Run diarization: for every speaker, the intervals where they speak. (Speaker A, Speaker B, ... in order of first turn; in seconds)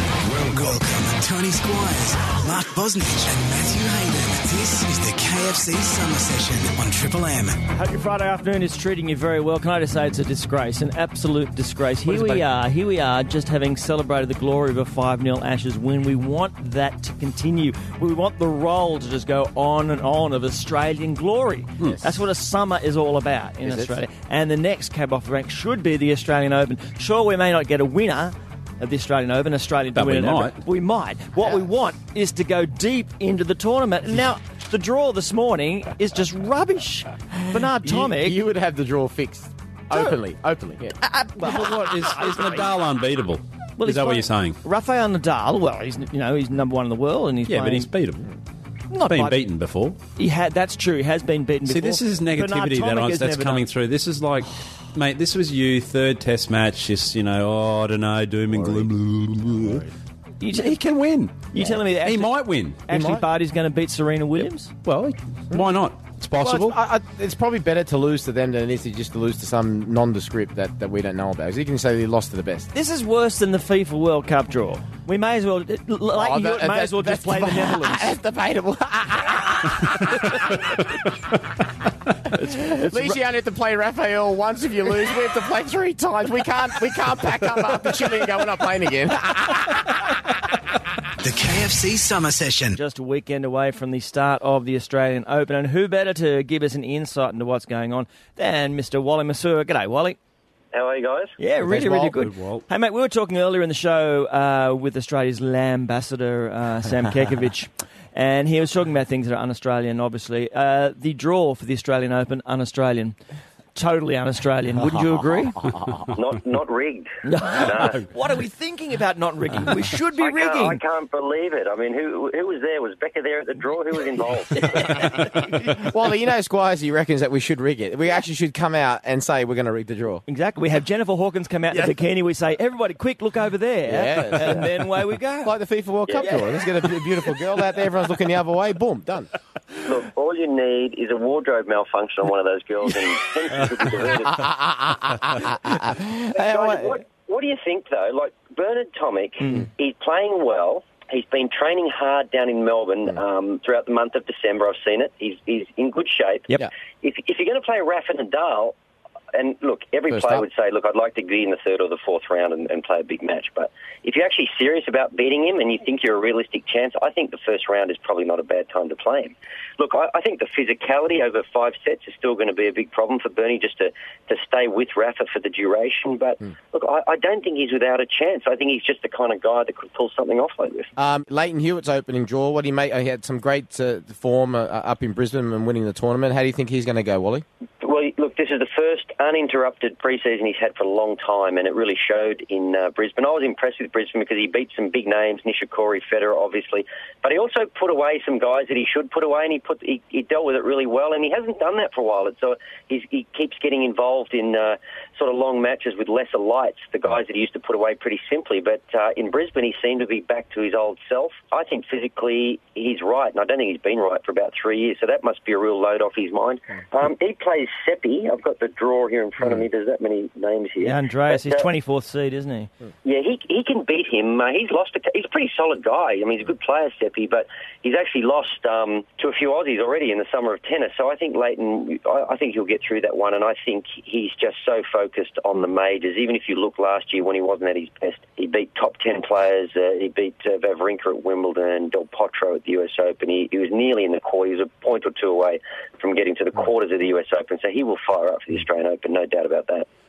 Speaker A: 0.2-7.6, 91.2-92.8
Speaker B: 7.8-38.4, 41.0-42.6, 43.8-47.9, 48.9-49.4, 50.2-53.6, 60.4-60.8, 61.5-64.7, 72.7-78.2, 82.3-83.2, 92.8-100.2, 101.4-113.2, 113.8-115.7, 117.2-120.8, 124.8-125.7, 130.3-135.6, 220.8-222.7
Speaker C: 12.1-12.4, 23.6-24.0, 37.4-41.0, 58.5-58.9, 62.9-63.3, 66.3-72.7, 76.1-80.7, 82.5-90.1, 101.6-102.1, 115.7-116.0, 125.7-130.2, 133.9-134.9, 135.4-139.3, 144.2-147.0, 160.1-160.4, 181.0-187.4
Speaker D: 29.9-30.6, 41.4-44.6, 47.5-48.3, 49.1-50.0, 51.7-59.9, 60.5-62.8, 64.8-66.8, 101.9-102.7
Speaker E: 100.7-101.3, 116.1-118.0, 120.2-125.1, 136.1-136.4, 139.8-144.5, 146.3-158.8, 159.3-180.9, 187.8-221.7, 223.0-249.9